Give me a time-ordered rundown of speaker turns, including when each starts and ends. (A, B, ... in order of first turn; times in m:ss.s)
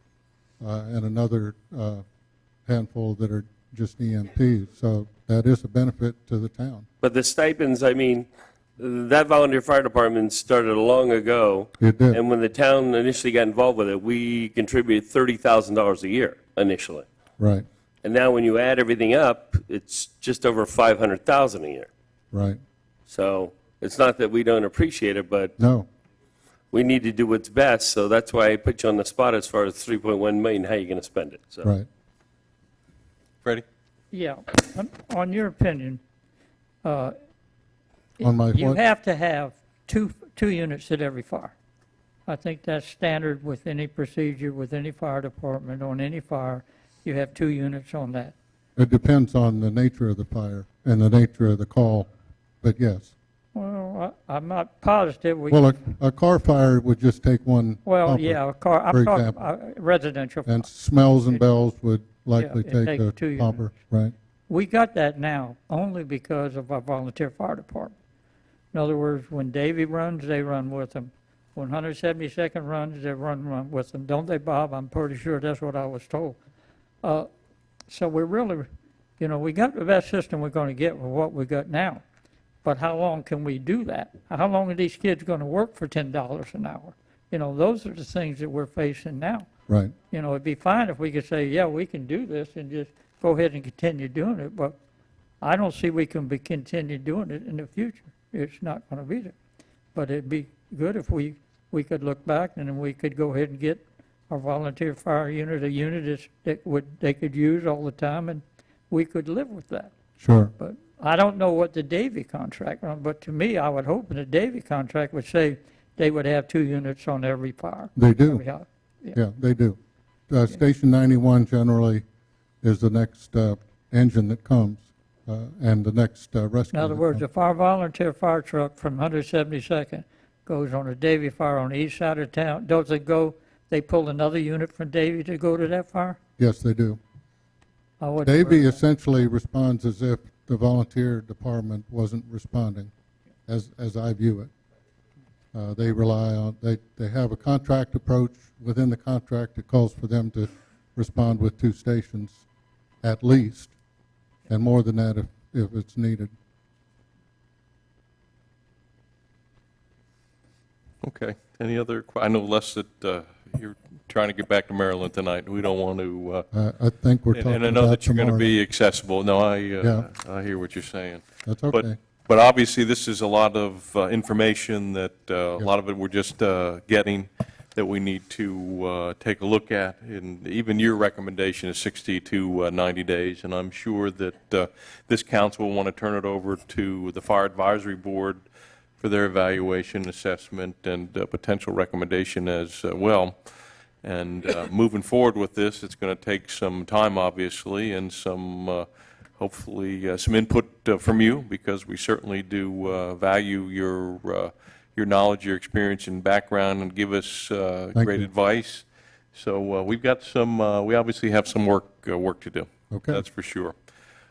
0:00.6-0:02.0 A
0:02.7-0:06.9 A
0:07.0-0:08.3 B
0:08.8-0:17.1 B
0:11.8-0:12.2 A
0:17.4-0:17.7 A
0:18.0-0:21.9 B
0:22.3-0:22.6 A
0:23.1-0:25.5 B
0:25.6-0:25.9 A
0:26.7-0:31.7 B
0:34.1-0:36.0 C
0:36.8-0:37.1 C
0:38.2-0:38.8 A
0:38.2-0:41.5 C
0:42.3-0:48.4 C
0:48.8-0:52.1 A
0:52.6-0:53.1 A
0:53.6-0:55.7 C
0:55.5-0:59.4 A
0:57.8-1:00.7 C
1:00.5-1:04.1 A
1:02.4-1:03.7 C
1:04.5-1:08.0 C
1:08.7-1:16.4 C
1:17.9-1:18.7 C
1:19.2-1:22.0 C
1:22.6-1:29.5 C
1:29.7-1:29.9 A
1:30.0-1:34.8 C
1:35.4-1:39.4 C
1:40.0-1:49.9 C
1:50.2-1:50.5 A
1:50.6-1:59.2 C
1:58.0-1:58.4 A
1:59.1-1:59.8 A
2:00.3-2:02.0 A
2:02.6-2:07.3 A
2:06.7-2:16.2 C
2:16.4-2:17.0 A
2:18.0-2:18.8 C
2:18.2-2:22.9 A
2:23.5-2:24.5 A
2:25.5-2:32.4 A
2:33.0-2:33.8 A
2:34.5-2:36.3 A
2:41.0-2:46.5 D
2:46.5-2:48.6 A
2:47.3-3:08.4 D
2:49.8-2:50.1 A
2:51.4-2:52.0 A
3:09.0-3:13.4 D
3:14.0-3:18.9 D
3:19.4-3:33.8 D
3:28.0-3:28.3 A
3:32.9-3:33.2 A